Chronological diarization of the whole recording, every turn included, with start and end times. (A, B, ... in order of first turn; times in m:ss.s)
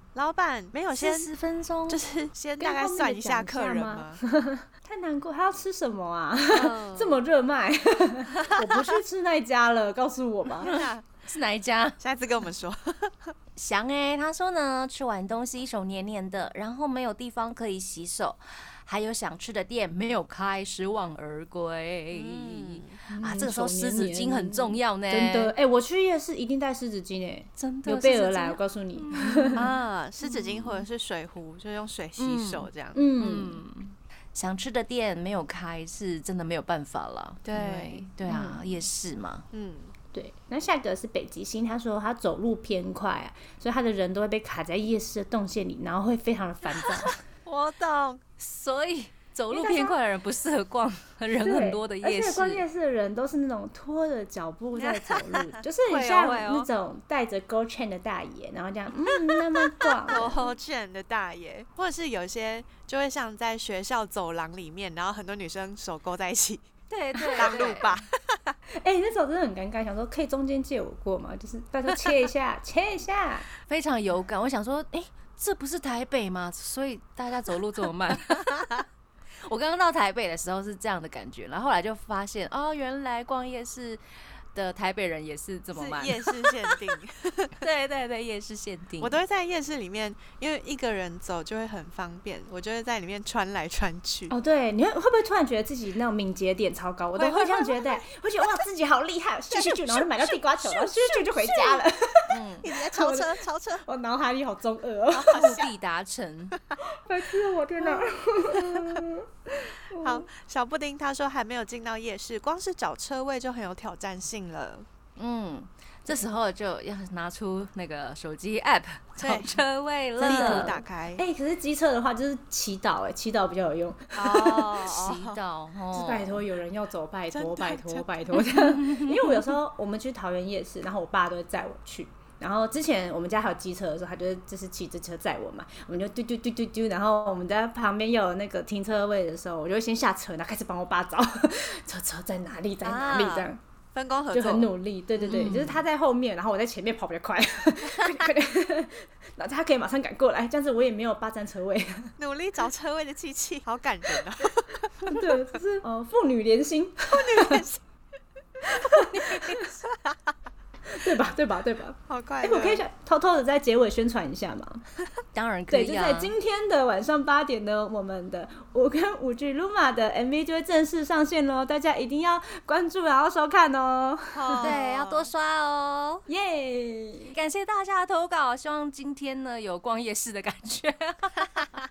0:00.1-0:01.3 A
0:00.9-0:02.0 B
0:01.9-0:04.2 A
0:02.6-0:10.7 C
0:06.5-0:07.2 A
0:08.4-0:08.9 A
0:10.6-0:11.1 A
0:10.6-0:12.0 B
0:12.0-0:13.3 A
0:13.6-0:25.5 B
0:22.1-0:23.0 A
0:23.1-0:29.7 C
0:27.6-0:30.9 B
0:29.6-0:33.0 A
0:32.2-0:39.5 B
0:33.0-0:33.6 C
0:37.4-0:38.1 A
0:38.2-0:38.6 C
0:39.5-0:39.9 A
0:40.1-0:47.2 C
0:47.4-0:48.2 A
0:48.4-0:52.6 B
0:49.5-0:50.0 C
0:51.4-1:00.4 C
0:54.8-0:56.7 A
0:59.8-1:06.7 A
1:06.9-1:08.1 B
1:07.2-1:08.6 A
1:08.8-1:13.5 C
1:13.7-1:18.5 B
1:18.4-1:18.8 A
1:19.4-1:24.0 B
1:24.5-1:26.8 B
1:25.8-1:27.7 A
1:27.6-1:29.2 B
1:29.0-1:34.3 A
1:34.3-1:45.6 C
1:37.2-1:37.7 A
1:39.5-1:41.8 A
1:42.3-1:42.7 B
1:42.6-1:43.8 A
1:45.1-1:45.8 A
1:45.3-1:46.6 B
1:46.8-1:50.3 C
1:47.9-1:49.0 A
1:50.0-1:54.9 A
1:55.2-2:00.7 B
1:59.2-1:59.6 A
2:00.2-2:04.7 C
2:00.2-2:01.2 A
2:04.2-2:05.4 A
2:04.8-2:06.4 B
2:05.9-2:23.6 C
2:07.3-2:08.1 A
2:08.4-2:09.4 B
2:22.8-2:25.6 A
2:24.3-2:32.2 C
2:25.3-2:25.8 B
2:32.2-2:35.1 A
2:35.0-2:37.6 C
2:37.1-2:37.8 A
2:38.6-2:40.3 A
2:38.6-2:39.7 C
2:40.9-2:44.8 C
2:42.1-2:42.8 A
2:45.3-2:46.3 B
2:45.7-2:54.7 C
2:54.3-2:55.3 A
2:54.6-2:56.3 B
2:56.3-2:57.4 C
2:57.3-3:01.7 B